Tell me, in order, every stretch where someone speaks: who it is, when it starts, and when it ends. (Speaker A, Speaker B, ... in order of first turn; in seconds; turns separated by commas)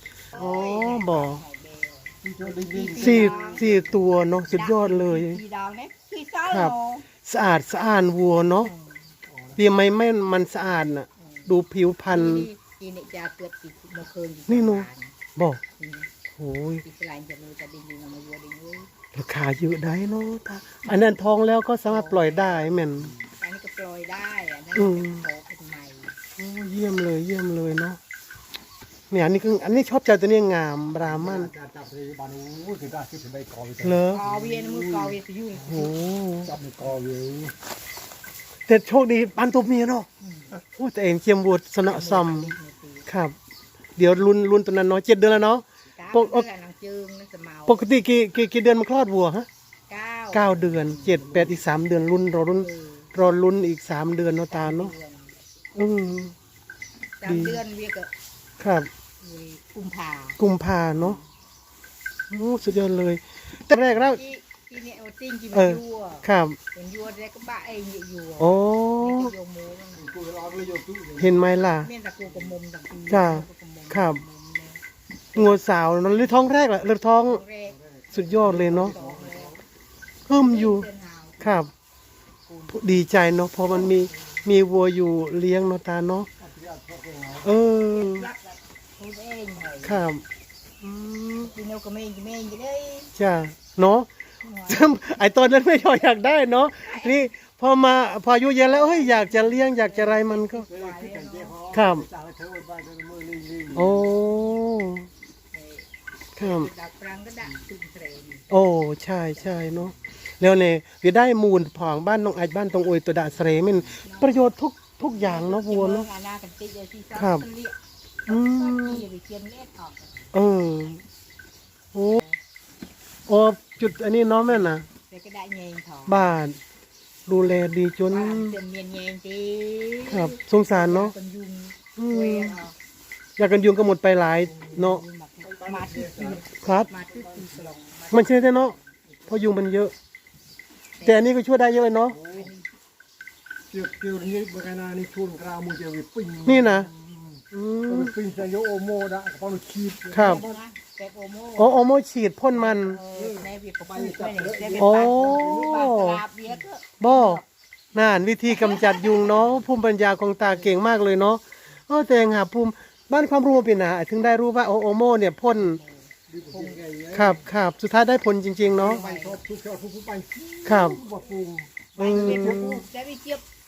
Speaker A: 0.3-1.4, Speaker B: 0.3-3.7, Speaker C: 2.2-3.8, Speaker A: 3.0-5.4, Speaker B: 4.5-7.1, Speaker A: 6.5-8.7, Speaker B: 8.6-9.1, Speaker C: 9.2-9.6, Speaker A: 9.6-12.5, Speaker B: 11.2-11.5, Speaker B: 12.1-15.2, Speaker A: 14.5-15.6, Speaker B: 15.8-16.1, Speaker A: 16.4-16.8, Speaker B: 16.8-18.9, Speaker A: 19.1-23.1, Speaker B: 21.9-22.6, Speaker B: 23.4-26.1, Speaker A: 24.7-25.3, Speaker A: 26.4-28.0, Speaker A: 29.1-31.5, Speaker C: 31.0-35.2, Speaker A: 33.8-34.2, Speaker B: 34.1-36.1, Speaker A: 35.6-36.5, Speaker C: 36.4-37.5, Speaker A: 38.7-40.1, Speaker B: 40.2-40.5, Speaker A: 40.8-42.5, Speaker B: 41.9-43.1, Speaker A: 43.1-43.4, Speaker A: 44.0-46.5, Speaker B: 45.9-47.9, Speaker A: 47.7-49.5, Speaker B: 49.9-51.2, Speaker A: 50.3-54.9, Speaker C: 51.1-51.6, Speaker B: 52.6-53.1, Speaker B: 54.5-55.4, Speaker A: 55.7-56.3, Speaker B: 57.2-58.1, Speaker A: 57.2-57.6, Speaker A: 58.6-58.9, Speaker B: 59.2-60.4, Speaker A: 60.4-61.2, Speaker A: 62.3-64.2, Speaker B: 64.1-70.1, Speaker A: 65.5-66.6, Speaker A: 68.4-69.3, Speaker C: 69.9-71.4, Speaker A: 71.2-71.9, Speaker B: 71.8-74.8, Speaker C: 72.2-72.5, Speaker A: 73.1-74.2, Speaker B: 75.3-75.6, Speaker A: 75.3-77.4, Speaker B: 76.1-76.4, Speaker B: 77.2-79.5, Speaker C: 77.7-79.6, Speaker A: 78.1-79.0, Speaker A: 80.2-80.9, Speaker B: 80.3-81.6, Speaker A: 81.4-81.7, Speaker B: 82.5-83.0, Speaker A: 82.7-86.3, Speaker C: 86.4-87.5, Speaker A: 87.4-88.3, Speaker B: 87.9-90.0, Speaker A: 89.8-90.2, Speaker A: 90.8-91.5, Speaker B: 91.4-93.1, Speaker A: 93.1-94.1, Speaker B: 94.4-95.0, Speaker A: 94.7-100.7, Speaker B: 96.8-97.3, Speaker B: 98.6-101.6, Speaker C: 100.7-104.1, Speaker A: 101.7-102.0, Speaker A: 103.7-105.1, Speaker B: 105.5-105.9, Speaker A: 106.3-106.7, Speaker B: 106.4-108.5, Speaker A: 108.5-116.1, Speaker B: 109.3-109.7, Speaker B: 114.0-114.5, Speaker B: 115.1-120.1, Speaker A: 117.1-117.5, Speaker A: 118.3-119.0, Speaker A: 120.3-121.0, Speaker A: 121.9-122.2, Speaker A: 123.3-124.8, Speaker B: 124.5-126.3, Speaker A: 126.1-126.6, Speaker A: 127.2-128.6, Speaker B: 128.1-132.7, Speaker A: 130.1-131.1, Speaker A: 131.9-132.6, Speaker A: 133.4-135.0, Speaker C: 134.5-134.9, Speaker B: 134.7-138.8, Speaker C: 135.4-136.4, Speaker A: 136.6-136.9, Speaker C: 137.1-137.7, Speaker A: 138.1-138.8, Speaker C: 139.1-139.5, Speaker A: 139.3-139.9, Speaker B: 141.0-141.3, Speaker A: 141.0-142.2, Speaker C: 142.1-142.5, Speaker B: 142.3-142.6, Speaker C: 143.7-150.6, Speaker A: 146.4-146.9, Speaker A: 147.5-148.1, Speaker A: 150.1-150.4, Speaker B: 150.1-151.8, Speaker A: 151.6-153.0, Speaker B: 152.5-157.4, Speaker C: 153.1-155.9, Speaker A: 154.8-156.2, Speaker A: 157.0-157.4, Speaker A: 157.9-165.8, Speaker B: 158.5-159.5, Speaker B: 160.4-160.8, Speaker B: 165.5-166.8, Speaker C: 166.3-167.4, Speaker A: 167.1-169.0, Speaker C: 168.7-172.8, Speaker B: 168.8-169.4, Speaker A: 170.6-171.0, Speaker B: 172.0-173.4, Speaker A: 172.0-172.8